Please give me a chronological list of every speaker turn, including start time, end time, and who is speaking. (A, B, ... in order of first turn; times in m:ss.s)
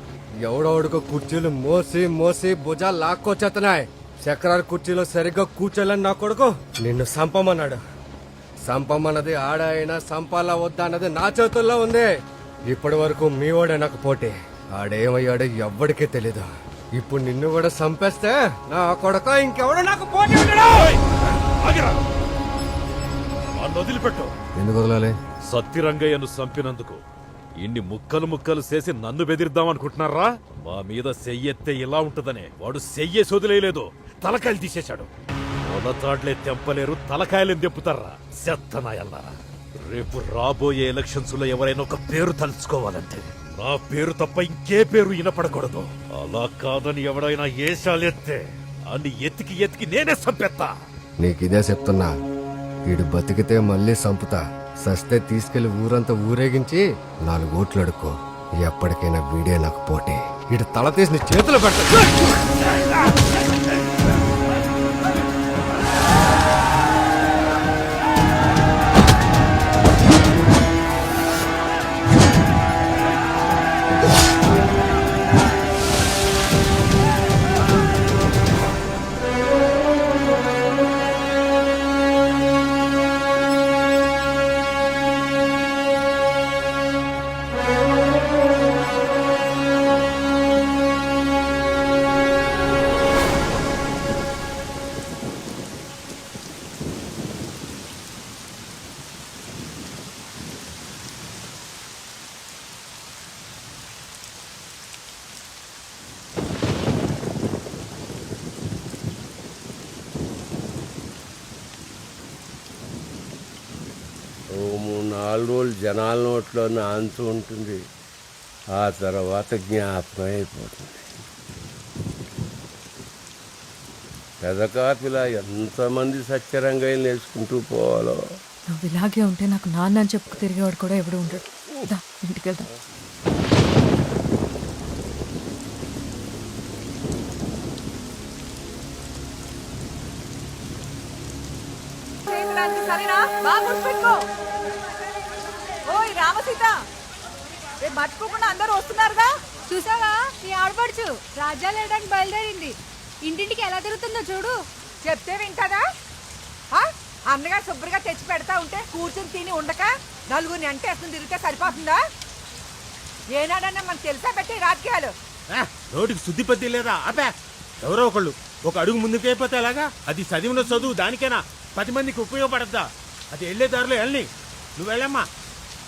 0:00.4-0:07.8 A
0:08.6-0:12.1 A
0:12.7-0:16.5 A
0:17.0-0:20.7 A
0:20.8-0:22.0 B
0:23.6-0:24.3 B
0:24.6-0:25.2 A
0:25.5-0:27.0 B
0:27.6-0:35.1 B
0:35.6-0:50.7 B
0:51.2-0:52.1 A
0:52.9-1:02.1 A
1:54.6-1:57.7 C
1:58.8-2:00.4 C
2:04.5-2:07.7 C
2:08.7-2:12.6 D
2:22.3-2:24.2 E
2:25.9-2:26.7 E
2:27.8-2:29.3 E
2:29.7-2:32.7 F
2:33.3-2:34.6 F
2:35.0-2:35.8 E
2:36.7-2:42.0 E
2:43.3-2:45.1 E
2:45.6-2:55.3 G